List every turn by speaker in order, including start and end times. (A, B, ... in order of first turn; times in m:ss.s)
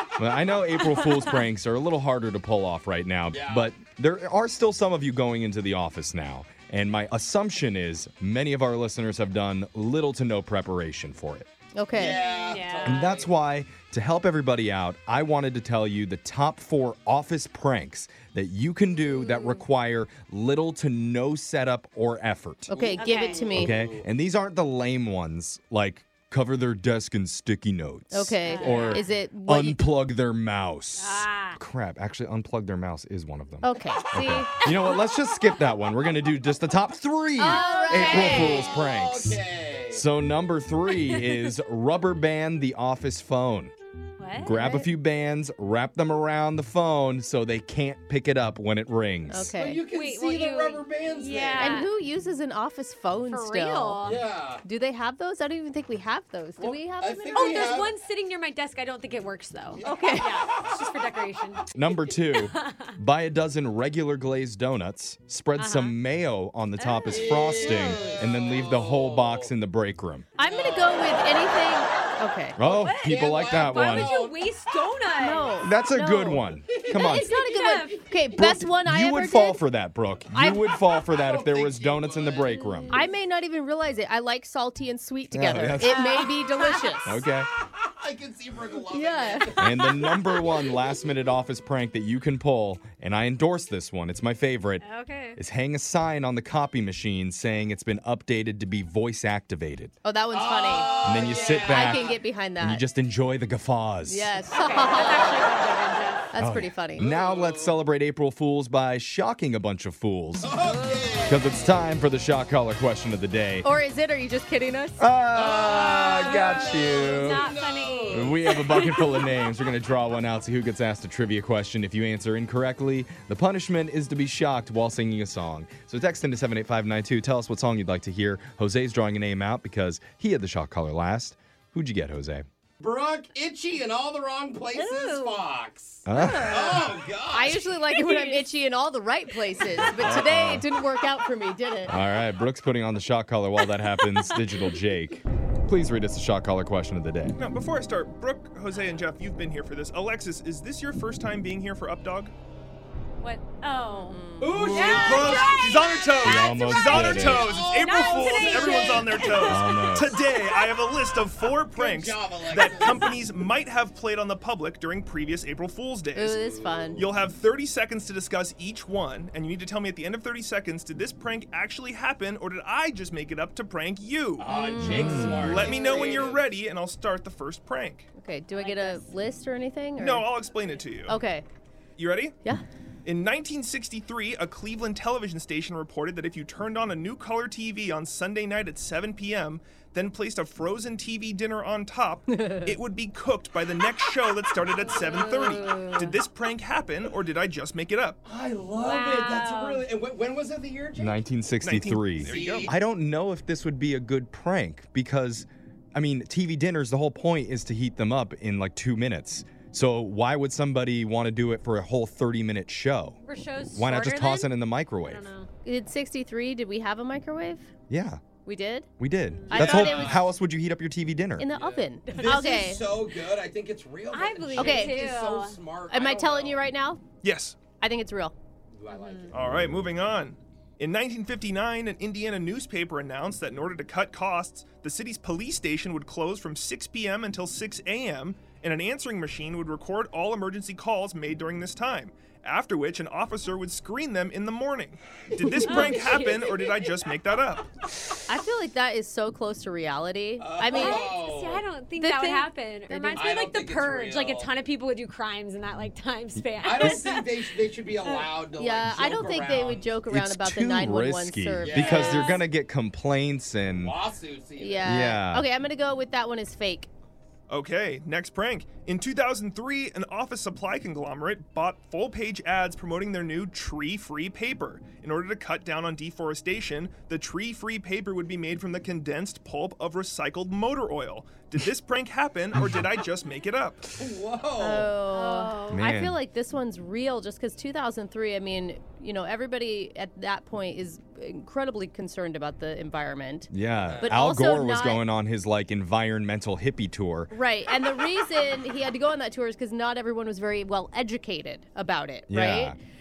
0:00.2-0:11.5 A
0:00.8-0:01.4 B
0:03.3-0:03.7 C
0:11.8-0:12.3 D
0:11.9-0:13.3 C
0:12.3-0:13.2 B
0:12.9-0:22.8 A
0:19.3-0:19.6 B
0:22.7-0:23.7 D
0:22.7-0:24.1 C
0:23.0-0:23.5 B
0:23.5-0:43.7 A
0:28.1-0:29.8 D
0:28.4-0:29.1 B
0:31.0-0:31.6 B
0:33.6-0:34.5 D
0:34.6-0:35.3 B
0:37.4-0:38.6 D
0:37.5-0:38.8 B
0:37.9-0:40.0 C
0:44.2-0:44.9 B
0:44.4-0:49.6 A
0:49.3-0:49.8 D
0:49.6-0:51.9 C
0:49.9-0:51.9 B
0:51.6-0:54.0 D
0:53.3-0:54.2 B
0:54.0-0:54.6 C
0:54.6-0:57.5 D
0:56.6-0:58.0 C
0:57.3-1:01.7 B
0:59.7-1:00.5 C
0:59.8-1:00.3 D
1:01.8-1:10.4 A
1:02.2-1:02.9 B
1:05.6-1:05.9 B
1:06.8-1:08.1 B
1:07.1-1:09.5 C
1:10.4-1:12.6 D
1:10.4-1:11.6 C
1:12.6-1:14.1 A
1:12.6-1:15.6 B
1:13.0-1:14.4 C
1:15.2-1:19.6 D
1:15.6-1:17.3 A
1:16.7-1:17.0 C
1:16.9-1:18.0 B
1:18.3-1:23.0 A
1:20.3-1:20.7 D
1:20.9-1:22.5 C
1:22.5-1:23.0 B
1:22.9-1:27.2 D
1:25.3-1:26.2 A
1:25.8-1:26.8 B
1:27.0-1:27.5 A
1:27.6-1:30.2 C
1:28.9-1:30.6 D
1:29.6-1:40.0 A
1:34.8-1:35.4 B
1:40.0-1:42.8 D
1:40.3-1:42.2 C
1:41.0-1:44.3 A
1:44.1-1:45.4 D
1:44.5-1:46.3 B
1:46.3-1:47.1 D
1:46.4-1:50.5 A
1:47.0-1:47.8 C
1:50.4-1:51.8 C
1:50.6-1:51.2 B
1:51.3-1:53.7 A
1:53.6-1:56.0 D
1:55.0-1:57.5 A
1:55.3-1:58.8 C
1:56.1-1:59.3 B
1:58.1-2:12.5 A
2:12.8-2:17.9 C
2:14.7-2:15.5 B
2:16.1-2:16.8 A
2:16.1-2:16.8 B
2:17.3-2:21.9 D
2:18.0-2:18.4 B
2:20.0-2:20.7 A
2:21.9-2:27.4 A
2:27.4-2:32.3 E
2:33.2-2:36.4 B
2:33.9-2:34.9 D
2:34.4-2:36.3 C
2:34.9-2:46.4 E
2:36.2-2:37.5 A
2:37.3-2:39.1 C
2:37.7-2:40.8 B
2:39.3-2:40.2 A
2:41.5-2:43.4 C
2:42.8-2:43.1 B
2:46.1-2:47.1 D
2:46.3-2:47.1 C
2:47.0-2:54.6 E
2:54.4-2:56.5 C
2:54.5-2:56.1 D
2:54.8-2:55.7 A
2:55.3-2:58.1 E
2:58.2-3:00.4 D
2:58.5-2:59.1 B
3:00.0-3:01.2 E
3:00.5-3:00.8 B
3:01.0-3:01.4 D
3:02.0-3:02.4 E
3:03.0-3:18.2 E
3:12.3-3:12.8 D
3:15.0-3:15.8 C
3:15.1-3:16.1 B
3:18.2-3:21.2 C
3:18.8-3:19.8 B
3:21.0-3:33.2 A
3:21.6-3:22.7 E
3:22.3-3:22.7 C
3:33.2-3:35.5 B
3:33.7-3:35.3 A
3:35.7-3:37.7 D
3:37.9-3:38.3 A
3:38.4-3:38.9 D
3:39.0-3:41.5 A
3:39.3-3:40.2 B
3:39.5-3:40.0 E
3:39.6-3:40.3 C
3:41.4-3:43.2 D
3:41.5-3:46.7 C
3:44.1-3:45.6 B
3:44.5-3:45.0 D
3:45.9-3:47.0 D
3:47.2-3:47.7 E
3:47.7-3:48.4 D
3:48.7-3:49.4 C
3:48.9-3:49.3 B
3:49.3-4:07.7 E
4:05.3-4:07.1 C
4:05.6-4:05.9 D
4:05.6-4:06.5 B
4:08.3-4:11.1 D
4:10.4-4:11.7 C
4:10.7-4:18.2 B
4:12.0-4:13.3 D
4:13.2-4:14.5 C
4:16.6-4:19.9 C
4:18.5-4:22.1 D
4:20.1-4:24.0 A
4:21.6-4:22.4 C
4:21.9-4:22.4 B
4:23.7-4:25.0 C
4:24.6-4:26.9 D
4:24.8-4:25.4 A
4:27.5-4:43.9 E
4:43.9-4:45.0 C
4:44.6-4:55.0 D
4:45.1-4:45.7 B
4:45.7-4:46.2 A
4:53.5-4:57.3 A
4:53.9-4:54.3 C
4:57.3-5:02.8 D
5:02.3-5:02.8 A